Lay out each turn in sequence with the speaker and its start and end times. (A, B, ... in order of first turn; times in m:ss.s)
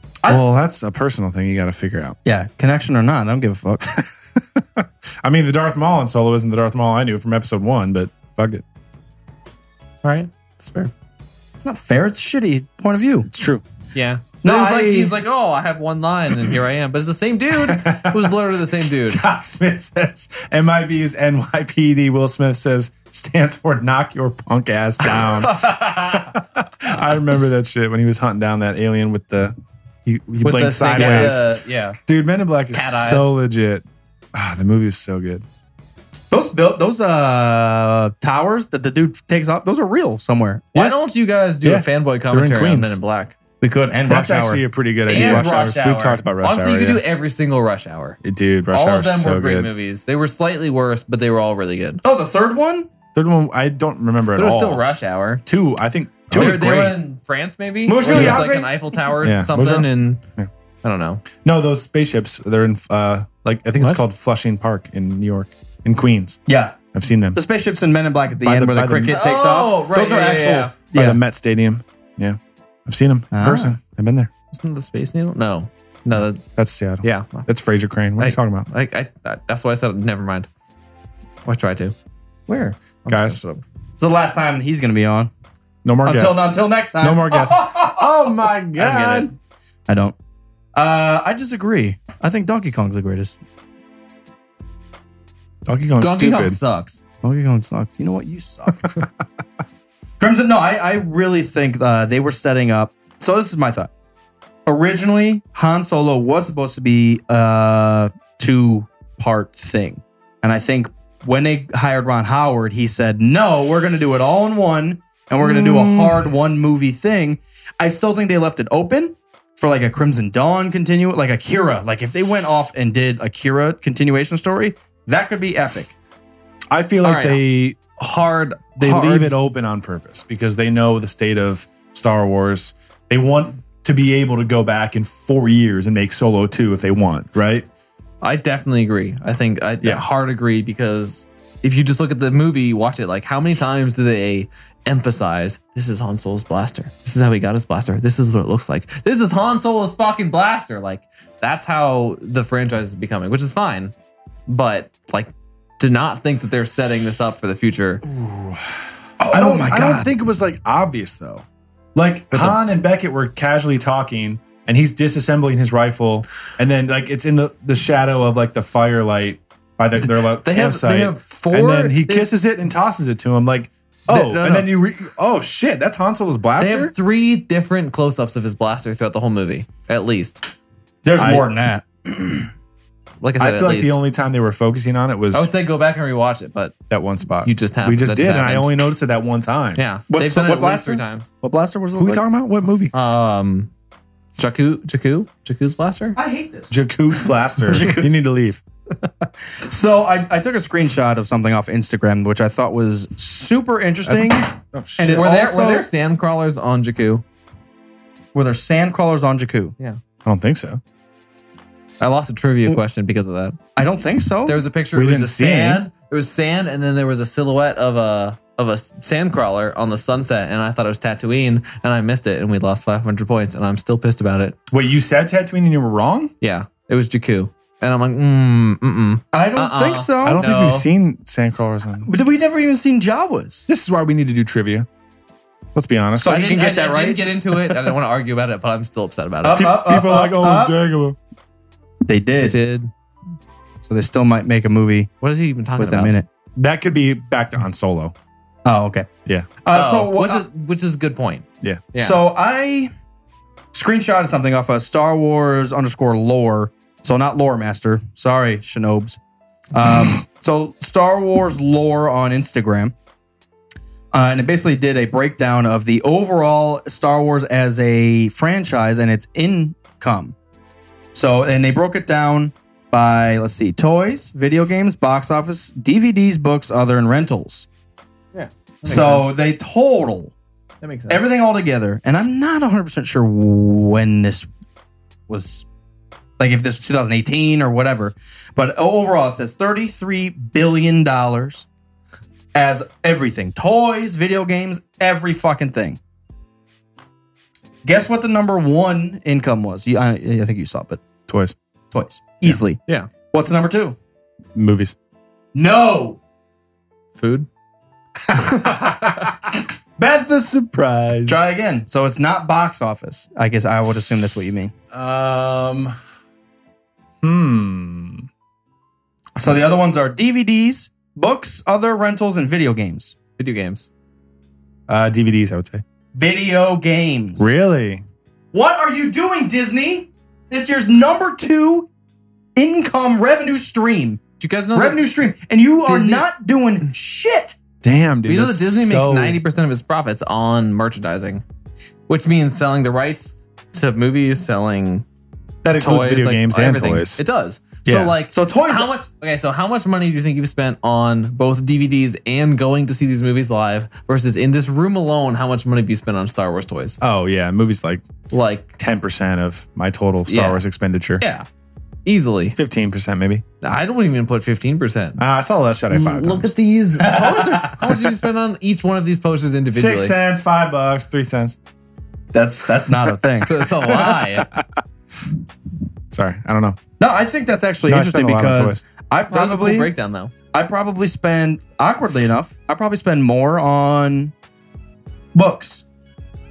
0:00.2-0:02.2 A
0:02.2-0:03.9 B
0:03.8-0:08.6 A
0:10.0-0:10.9 C
0:11.6-0:13.3 B
0:13.0-0:13.6 A
0:13.9-0:19.2 C
0:14.4-0:15.2 B
0:17.5-0:18.4 A
0:19.1-0:29.5 A
0:25.0-0:26.3 C
0:30.0-0:31.5 A
0:30.4-0:32.0 C
0:31.0-0:31.3 B
0:32.1-0:35.4 A
0:32.7-0:33.3 C
0:36.3-0:40.6 B
0:40.7-0:43.4 C
0:41.6-0:43.0 A
0:43.6-0:45.5 B
0:44.1-0:47.0 A
0:45.1-0:48.2 C
0:48.2-0:49.7 A
0:48.7-0:52.0 C
0:52.0-0:52.9 B
0:53.1-0:54.8 A
0:54.3-0:55.4 C
0:55.4-0:56.6 A
0:56.3-0:57.0 B
0:56.3-1:00.2 C
0:57.8-0:58.7 B
0:58.1-0:58.4 A
0:59.2-1:00.5 A
1:00.8-1:01.2 C
1:01.4-1:06.4 A
1:06.5-1:06.8 B
1:06.9-1:07.4 A
1:07.3-1:11.2 B
1:08.4-1:09.2 A
1:09.1-1:10.7 C
1:10.9-1:14.3 A
1:13.3-1:13.8 B
1:14.5-1:16.4 C
1:16.5-1:18.7 A
1:17.0-1:17.5 C
1:18.2-1:20.5 C
1:21.4-1:21.9 C
1:22.5-1:22.8 B
1:23.0-1:23.6 C
1:23.1-1:23.4 A
1:24.0-1:25.3 B
1:25.8-1:29.3 A
1:26.0-1:27.9 B
1:28.8-1:29.3 B
1:29.0-1:29.2 C
1:29.9-1:30.2 B
1:30.7-1:33.4 B
1:35.7-1:36.6 A
1:36.0-1:37.0 C
1:37.2-1:38.9 B
1:40.2-1:43.9 B
1:44.6-2:05.9 B
1:55.4-1:56.2 A
2:06.7-2:07.8 A
2:07.0-2:07.4 C
2:08.0-2:09.4 C
2:08.8-2:17.7 A
2:18.2-2:33.9 C
2:34.5-2:38.0 C
2:38.0-2:38.7 A
2:39.2-2:40.1 B
2:39.3-2:56.9 A
2:50.0-2:52.3 C
2:54.1-2:54.7 C
2:56.6-3:00.4 C
3:01.0-3:02.5 B
3:01.2-3:01.5 A
3:03.2-3:03.9 C
3:03.4-3:05.5 A
3:05.3-3:06.7 C
3:06.9-3:09.8 A
3:07.4-3:08.7 C
3:09.8-3:11.3 C
3:10.1-3:12.2 B
3:12.0-3:12.9 A
3:12.9-3:13.7 C
3:14.4-3:16.2 C
3:16.2-3:16.8 B
3:16.7-3:18.6 A
3:17.5-3:18.1 B
3:19.5-3:25.8 B
3:24.0-3:25.3 A
3:25.1-3:27.2 C
3:28.3-3:29.7 B
3:30.2-3:30.8 A
3:32.0-3:33.6 C
3:33.8-3:34.6 B
3:34.4-3:44.6 C
3:34.9-3:35.8 A
3:44.7-3:46.3 A
3:46.4-3:50.9 C
3:49.3-3:50.4 B
3:50.2-3:52.1 A
3:52.0-3:53.6 B
3:53.7-3:54.9 A
3:55.7-3:56.4 A
3:56.2-3:57.9 B
3:56.2-3:59.8 C
3:59.4-4:00.7 B
3:59.5-4:01.2 A
4:02.0-4:02.6 B
4:02.4-4:02.9 C
4:03.8-4:05.1 B
4:05.2-4:06.1 C
4:05.8-4:06.2 B
4:06.6-4:08.1 A
4:08.6-4:09.1 B
4:09.6-4:10.4 B
4:09.7-4:12.2 C
4:12.0-4:12.9 B
4:13.7-4:19.2 B
4:19.7-4:22.9 B
4:24.1-4:30.3 B
4:31.1-4:37.7 B
4:38.3-4:39.4 C
4:38.8-4:40.3 B
4:40.8-4:41.2 C
4:41.1-4:44.5 B
4:45.3-4:45.6 B
4:46.4-4:51.7 B
4:52.5-4:56.0 B
4:57.8-5:01.0 B
5:01.3-5:01.6 A
5:01.9-5:04.0 B
5:04.5-5:04.9 A
5:05.5-5:06.2 B
5:07.2-5:07.5 C
5:08.2-5:11.5 A
5:08.3-5:09.3 C
5:11.2-5:14.7 B
5:14.9-5:15.9 A
5:17.2-5:18.3 A
5:19.4-5:23.1 B
5:23.4-5:23.9 C
5:24.9-5:25.8 A
5:26.1-5:27.5 B
5:27.4-5:28.0 A
5:28.5-5:31.9 B
5:32.6-5:34.2 B
5:34.4-5:35.0 C
5:34.7-5:37.6 B
5:35.8-5:36.3 C
5:37.8-5:39.4 A
5:38.2-5:41.4 C
5:42.1-5:45.0 C
5:45.6-5:47.2 A
5:45.7-5:57.0 C
5:47.8-5:48.1 A
5:48.2-5:48.9 B
5:57.0-5:58.0 A
5:58.3-5:58.7 C
5:58.8-6:01.2 A
6:00.3-6:00.6 C
6:01.2-6:01.4 C
6:02.0-6:02.6 C
6:02.6-6:03.4 A
6:03.6-6:05.2 C
6:05.2-6:06.5 A
6:05.9-6:10.2 C
6:07.0-6:07.8 B
6:09.7-6:11.6 A
6:12.3-6:13.7 B
6:13.4-6:14.5 C
6:14.1-6:14.6 A
6:16.1-6:16.8 A
6:17.0-6:19.9 B
6:17.8-6:18.8 A
6:19.3-6:20.3 C
6:20.5-6:24.3 B
6:25.3-6:25.8 B